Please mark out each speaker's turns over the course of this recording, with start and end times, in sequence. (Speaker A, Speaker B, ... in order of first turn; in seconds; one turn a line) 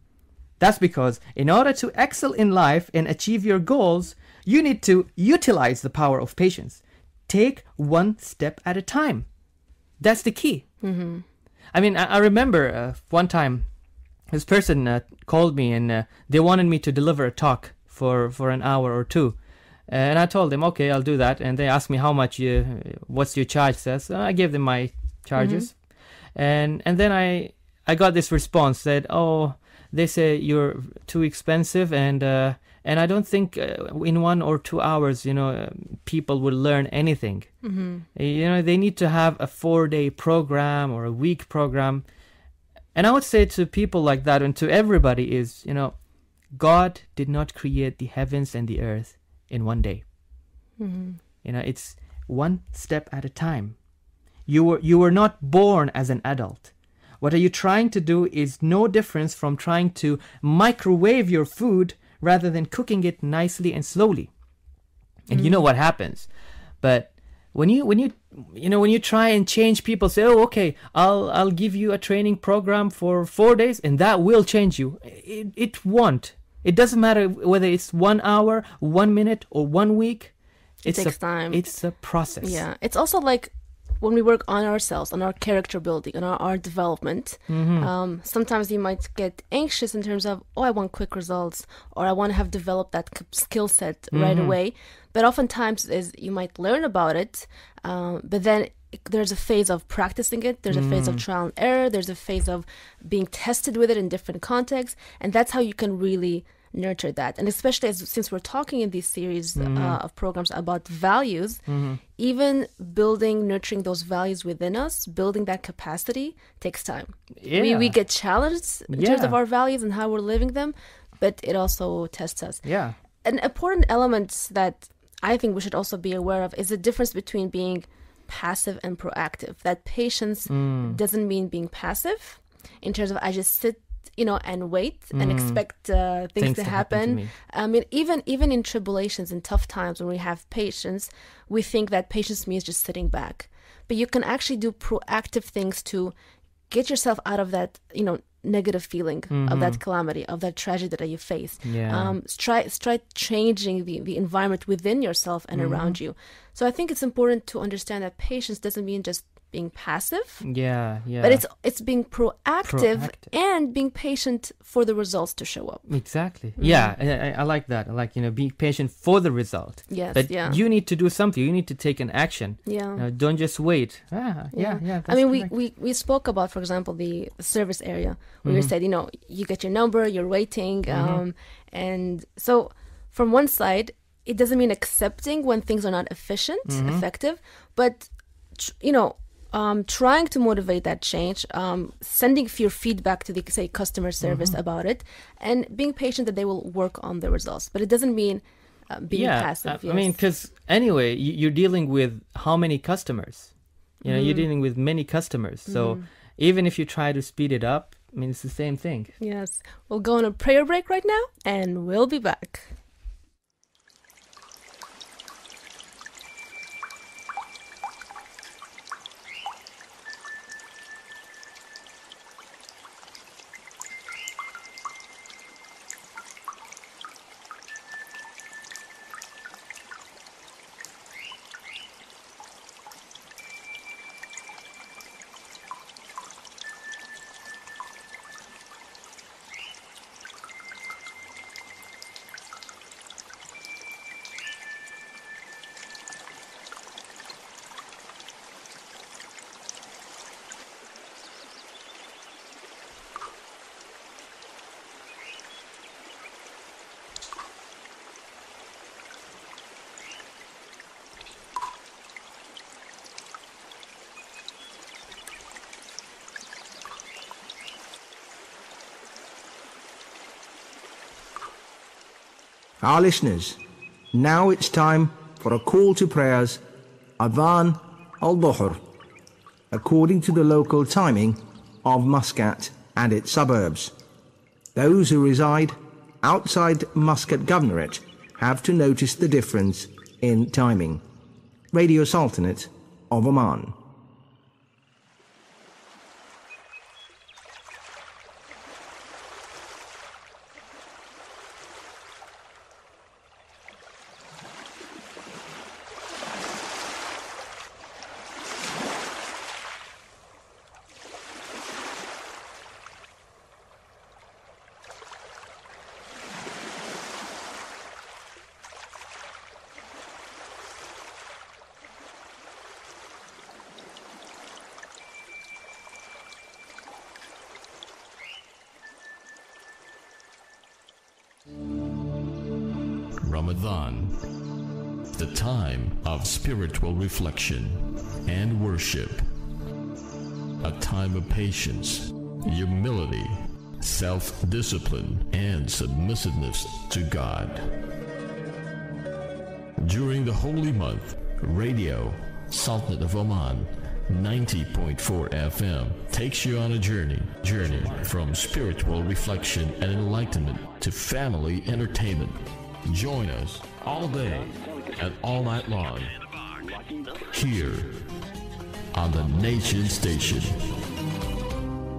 Speaker A: 0.6-9.3
Speaker A: 10.0-10.7
Speaker B: 10.8-11.2
Speaker A: 11.7-13.7
Speaker A: 14.3-25.8
Speaker B: 25.4-25.7
Speaker A: 26.3-42.0
Speaker B: 37.6-38.0
Speaker A: 42.9-46.0
Speaker A: 46.5-50.0
Speaker B: 50.8-51.2
Speaker A: 51.4-53.8
Speaker A: 54.5-64.3
Speaker A: 65.3-66.3
Speaker B: 65.3-65.6
Speaker A: 66.8-82.6
Speaker B: 80.8-81.7
Speaker B: 82.4-122.7
Speaker A: 87.5-87.9
Speaker A: 94.1-94.6
Speaker A: 100.7-101.2
Speaker A: 109.5-110.0
Speaker A: 111.7-112.0
Speaker A: 117.4-117.9
Speaker A: 118.9-119.4
Speaker A: 122.6-123.0
Speaker B: 123.2-146.1
Speaker A: 130.5-131.0
Speaker A: 135.1-135.6
Speaker A: 136.3-137.3
Speaker B: 146.7-160.5
Speaker A: 149.3-149.8
Speaker A: 151.6-152.2
Speaker A: 155.5-156.0
Speaker A: 160.4-161.4
Speaker B: 161.2-165.9
Speaker A: 162.6-163.3
Speaker A: 165.8-175.5
Speaker B: 166.6-166.9
Speaker B: 169.9-170.6
Speaker B: 172.7-173.0
Speaker B: 174.5-200.2
Speaker A: 178.4-178.7
Speaker A: 180.9-181.2
Speaker A: 186.7-187.0
Speaker A: 194.2-194.6
Speaker A: 199.1-209.1
Speaker B: 204.0-204.5
Speaker B: 205.7-206.1
Speaker B: 209.2-212.7
Speaker C: 272.8-273.6
Speaker C: 274.1-276.6
Speaker C: 277.2-278.8
Speaker C: 279.7-283.9
Speaker C: 284.7-291.0
Speaker C: 291.7-293.7
Speaker D: 333.2-334.2
Speaker D: 335.1-339.2
Speaker D: 340.6-347.8
Speaker D: 349.8-366.2
Speaker D: 367.2-368.1
Speaker D: 368.9-370.9